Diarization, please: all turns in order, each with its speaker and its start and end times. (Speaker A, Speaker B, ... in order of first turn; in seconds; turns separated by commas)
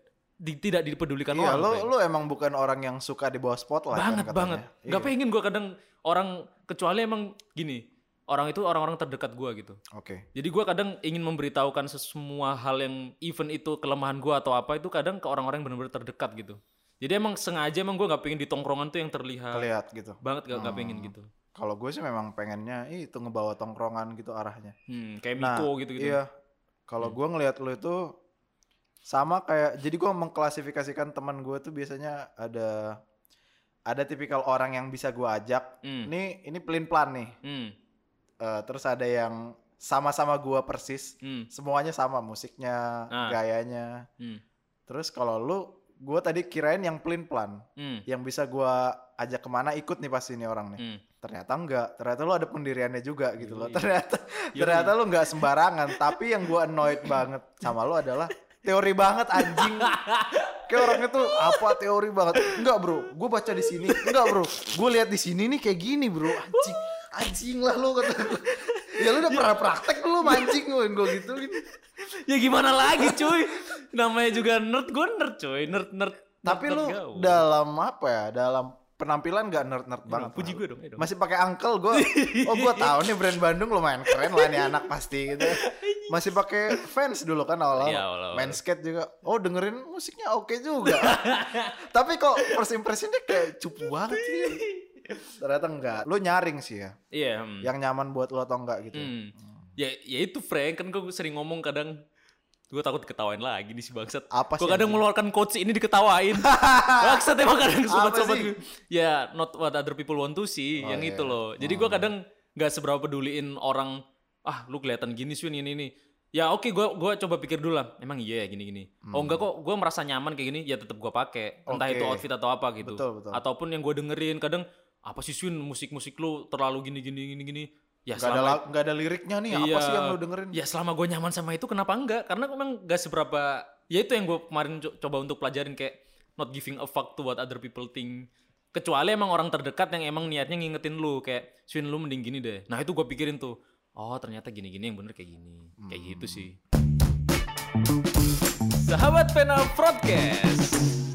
Speaker A: 0.4-1.9, Speaker B: 1.3-5.1, Speaker A: 3.9-9.8, Speaker B: 9.9-10.3, Speaker A: 10.3-19.7, Speaker B: 19.5-24.8, Speaker A: 20.2-21.3, Speaker A: 24.9-26.2, Speaker B: 25.4-26.3, Speaker B: 26.9-28.1, Speaker B: 29.1-33.0, Speaker B: 33.9-37.4, Speaker A: 35.8-36.1, Speaker A: 37.4-37.7, Speaker B: 38.4-44.1, Speaker A: 41.2-41.5, Speaker A: 43.1-43.4, Speaker B: 44.9-60.0, Speaker A: 47.8-48.0, Speaker A: 53.4-53.9, Speaker A: 54.5-56.2, Speaker A: 56.9-57.7, Speaker A: 59.4-61.8, Speaker B: 60.7-71.6, Speaker A: 62.4-62.6, Speaker A: 63.6-64.5, Speaker A: 66.3-66.8, Speaker A: 68.2-69.6, Speaker A: 70.2-77.5, Speaker B: 72.9-73.4, Speaker B: 76.5-94.7, Speaker A: 80.1-81.1, Speaker A: 81.9-83.4, Speaker A: 84.1-86.9, Speaker A: 87.8-88.6, Speaker A: 90.8-91.8, Speaker A: 93.8-95.3, Speaker B: 95.4-97.0, Speaker A: 97.1-97.7, Speaker B: 97.6-99.1, Speaker A: 99.0-102.0, Speaker A: 102.7-128.6, Speaker B: 104.3-105.0, Speaker B: 106.4-107.2, Speaker B: 107.9-108.5, Speaker B: 110.8-112.1, Speaker B: 119.1-119.5, Speaker B: 121.7-122.2, Speaker B: 122.8-123.4, Speaker B: 128.2-130.6, Speaker A: 129.5-146.6, Speaker B: 145.8-146.5, Speaker A: 148.7-151.1